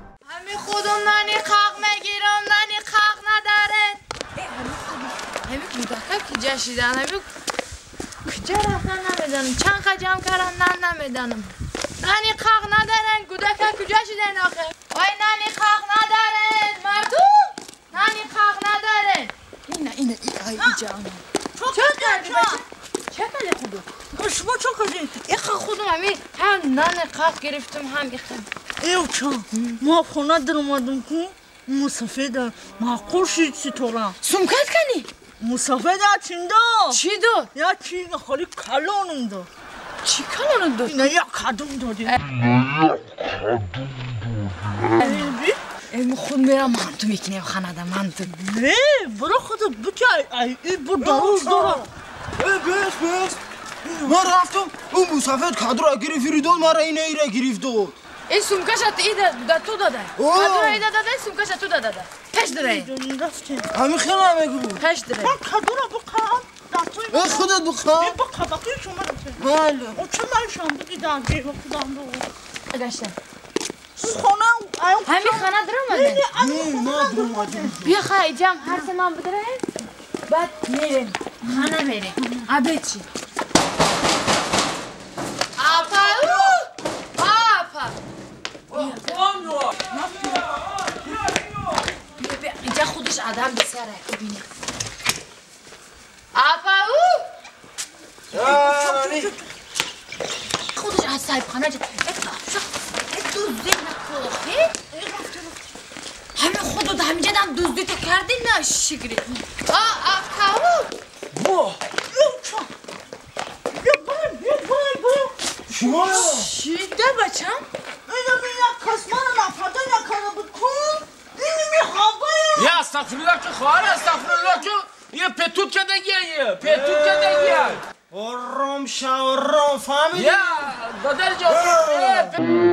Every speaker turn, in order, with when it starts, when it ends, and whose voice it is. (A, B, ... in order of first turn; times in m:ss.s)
0:00.2-0:07.3 A
0:08.2-0:23.9 A
0:21.6-0:22.6 B
0:24.1-0:25.1 B
0:25.2-0:28.5 A
0:28.8-0:34.2 B
0:29.5-0:29.8 A
0:34.2-0:35.1 A
0:35.4-0:37.0 B
0:36.9-0:37.5 A
0:37.5-0:39.5 B
0:40.0-0:41.0 A
0:40.8-0:42.1 B
0:45.0-0:45.3 A
0:45.0-0:45.6 B
0:45.9-0:48.3 A
0:48.3-0:51.8 B
0:51.0-0:51.8 C
0:52.4-0:53.4 C
0:53.8-0:54.2 B
0:54.0-0:57.9 C
0:58.3-1:02.9 A
1:00.2-1:00.8 C
1:02.4-1:03.7 B
1:03.7-1:04.8 C
1:04.8-1:05.4 A
1:05.2-1:09.4 B
1:07.1-1:08.2 C
1:09.4-1:10.0 C
1:09.9-1:12.3 B
1:12.7-1:13.1 A
1:14.0-1:17.7 B
1:15.0-1:16.3 A
1:16.3-1:18.0 C
1:17.8-1:19.6 A
1:20.3-1:23.0 A
1:25.6-1:26.6 A
1:25.8-1:26.6 D
1:27.2-1:28.0 A
1:28.7-1:31.4 D
1:28.8-1:29.1 A
1:30.0-1:30.5 B
1:32.2-1:34.5 A
1:36.3-1:37.2 A
1:38.3-1:39.3 C
1:38.3-1:39.3 D
1:38.4-1:39.4 B
1:40.7-1:44.7 A
1:44.9-1:45.6 B
1:46.3-1:50.9 A
1:51.3-1:51.8 D
1:52.1-1:52.7 B
1:53.7-1:55.3 B
1:55.7-1:56.5 D
1:55.7-1:56.4 C
1:56.0-1:57.6 A
1:58.1-2:02.7 B
2:02.5-2:07.8 D
2:06.6-2:10.4 C
2:10.1-2:12.4 D